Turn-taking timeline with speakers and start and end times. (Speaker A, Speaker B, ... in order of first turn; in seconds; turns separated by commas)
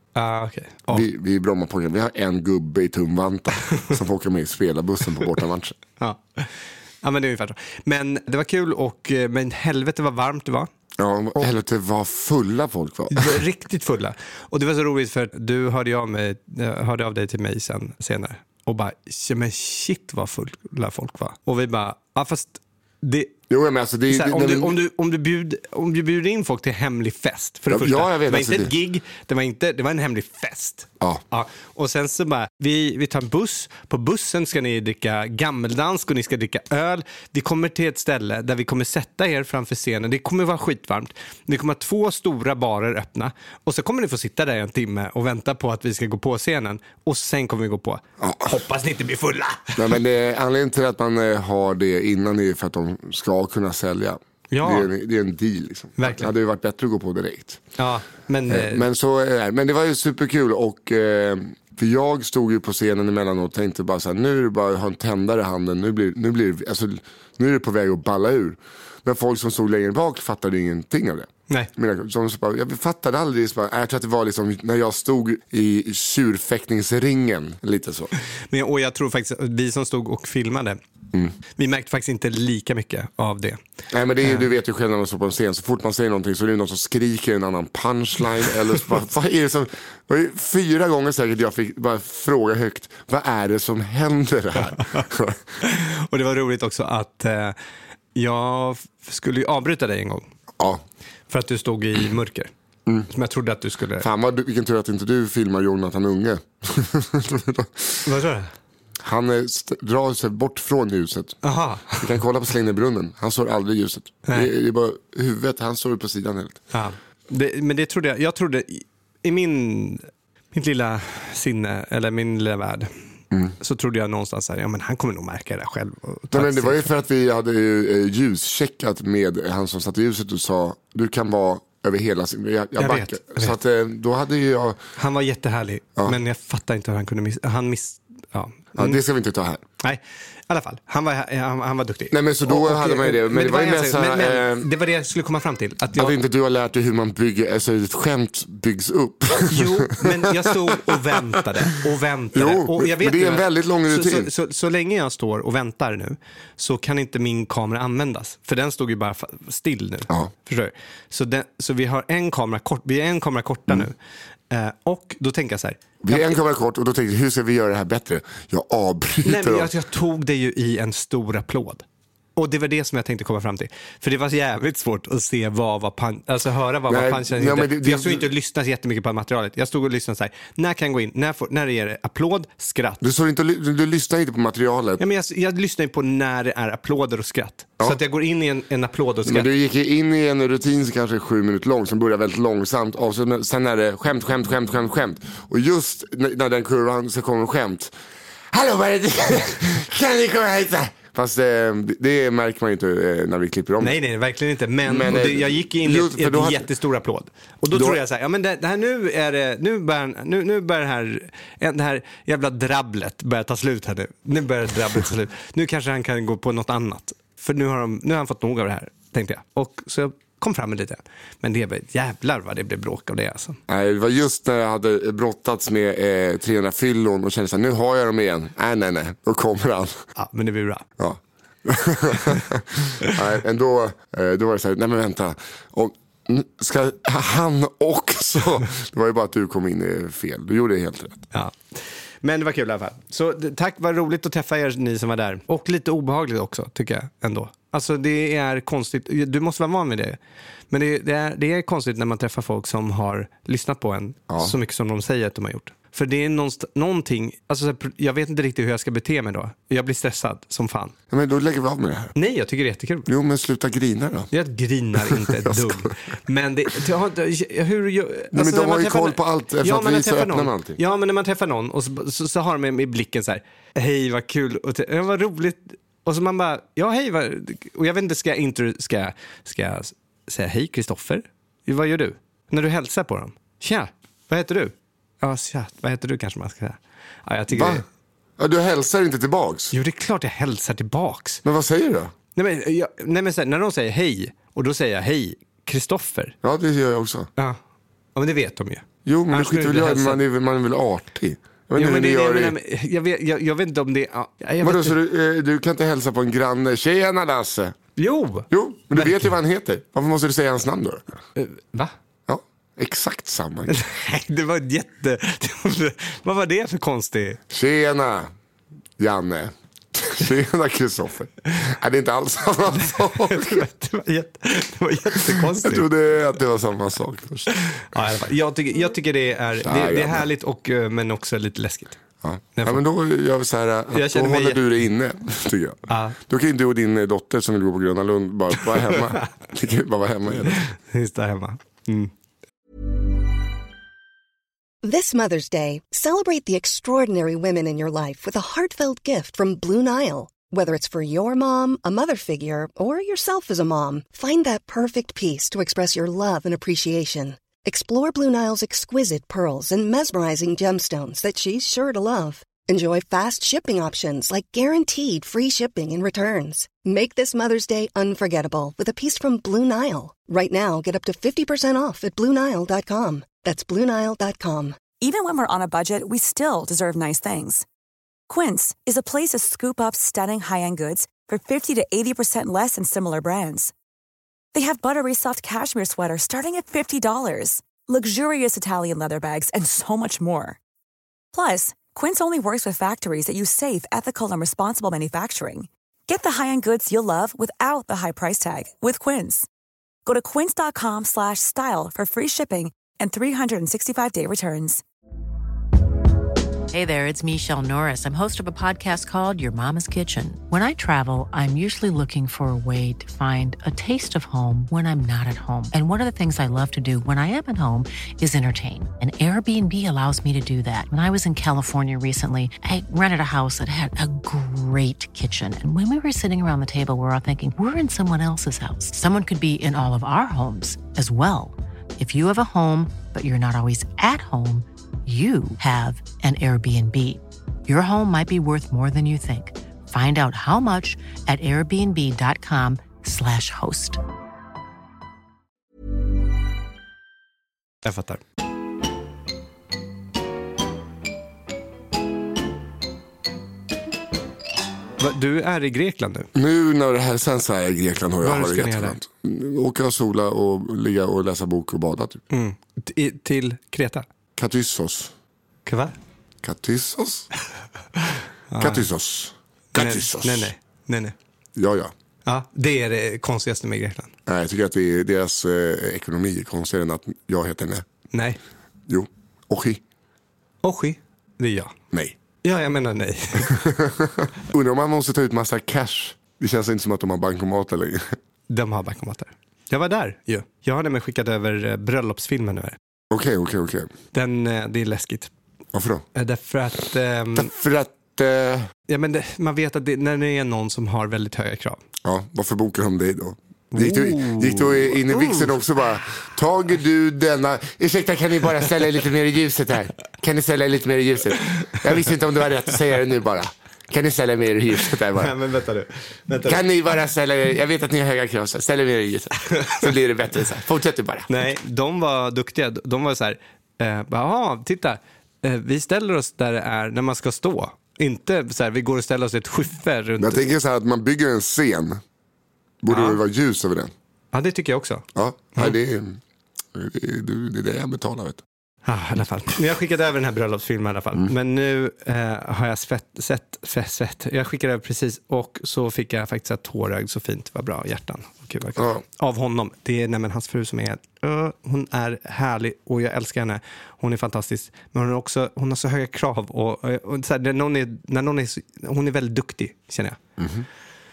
Speaker A: 0.1-1.1, Speaker B: 0.9-5.8, Speaker A: 6.0-10.7, Speaker B: 11.0-13.4, Speaker A: 13.1-23.3, Speaker B: 23.5-24.8, Speaker A: 24.1-50.0, Speaker B: 27.7-28.7, Speaker B: 48.2-48.6, Speaker B: 49.8-57.6, Speaker A: 54.5-54.9, Speaker A: 56.0-56.3, Speaker A: 57.8-58.8, Speaker B: 58.5-78.1, Speaker A: 78.5-80.8, Speaker A: 81.5-83.6, Speaker B: 83.9-95.4, Speaker A: 94.7-95.1, Speaker A: 95.6-97.5, Speaker A: 98.1-100.3, Speaker A: 101.3-102.5, Speaker A: 103.1-104.1, Speaker B: 104.0-108.1, Speaker A: 108.0-108.5, Speaker B: 109.0-116.6, Speaker A: 111.4-112.1, Speaker A: 114.2-114.5, Speaker A: 116.7-122.9, Speaker A: 123.6-126.9, Speaker B: 126.3-134.8, Speaker A: 132.8-133.6, Speaker A: 135.0-139.0, Speaker B: 138.8-139.6, Speaker A: 139.8-146.2, Speaker B: 142.1-144.7, Speaker B: 145.9-151.2, Speaker A: 149.5-164.0, Speaker B: 152.3-154.3, Speaker A: 164.5-166.3, Speaker B: 166.0-169.7, Speaker A: 169.2-171.8, Speaker A: 172.4-183.0, Speaker B: 176.9-178.3, Speaker B: 183.0-185.0, Speaker A: 185.0-189.5, Speaker B: 189.2-197.9, Speaker B: 198.5-204.0, Speaker A: 203.8-223.6, Speaker B: 204.8-206.7, Speaker B: 207.7-208.0, Speaker B: 223.7-230.0, Speaker A: 230.2-230.9, Speaker B: 231.0-241.2, Speaker A: 241.3-250.2, Speaker A: 250.7-260.9, Speaker B: 254.3-254.6, Speaker B: 261.1-262.1, Speaker A: 262.1-263.1, Speaker B: 263.1-264.3, Speaker A: 264.3-287.8, Speaker B: 264.9-265.9, Speaker B: 268.3-270.8, Speaker B: 287.5-287.8, Speaker B: 288.4-289.7, Speaker A: 289.7-291.4, Speaker B: 291.4-292.1, Speaker A: 292.4-296.4, Speaker B: 296.4-297.3, Speaker A: 298.1-300.2, Speaker B: 299.1-302.6, Speaker A: 301.8-304.9, Speaker B: 304.6-307.8, Speaker A: 308.0-309.3, Speaker B: 308.5-311.2, Speaker A: 311.4-311.9, Speaker B: 312.3-313.8, Speaker A: 313.7-317.4, Speaker B: 317.5-318.3, Speaker B: 319.0-323.6, Speaker A: 322.8-325.9, Speaker B: 325.3-327.5, Speaker A: 327.5-332.0, Speaker B: 329.6-330.3, Speaker B: 332.2-340.6, Speaker A: 332.6-332.8, Speaker A: 333.9-334.6, Speaker A: 335.9-336.2, Speaker A: 340.5-342.1, Speaker C: 344.8-374.8, Speaker D: 375.0-377.6, Speaker D: 378.3-383.7, Speaker D: 384.5-390.6, Speaker D: 391.3-399.5, Speaker D: 400.1-404.8, Speaker E: 406.7-444.0, Speaker A: 447.8-448.2, Speaker A: 455.0-456.3, Speaker B: 456.4-462.2, Speaker A: 458.2-459.0, Speaker A: 462.3-464.1, Speaker B: 464.4-465.1, Speaker A: 465.6-465.9, Speaker B: 466.4-467.3, Speaker A: 468.0-468.9, Speaker B: 468.6-470.5, Speaker A: 469.7-471.1, Speaker B: 471.6-471.9, Speaker A: 472.2-474.1, Speaker B: 474.2-477.9, Speaker A: 478.1-478.4, Speaker B: 478.9-479.8, Speaker A: 480.6-481.7, Speaker A: 482.4-483.6, Speaker B: 483.4-488.1, Speaker A: 488.5-492.8, Speaker B: 493.1-493.9, Speaker A: 494.1-495.3, Speaker B: 495.7-496.1, Speaker A: 496.1-497.5, Speaker B: 497.4-498.7, Speaker A: 498.9-501.8, Speaker B: 502.1-515.3, Speaker A: 503.7-505.5, Speaker A: 515.1-516.6, Speaker B: 516.4-521.3, Speaker A: 521.3-530.4, Speaker B: 530.2-532.0, Speaker B: 532.8-533.9, Speaker A: 532.9-533.2, Speaker A: 534.3-535.7, Speaker B: 535.1-536.2, Speaker B: 536.7-538.4, Speaker A: 538.9-560.2, Speaker B: 548.8-549.0, Speaker B: 560.4-560.6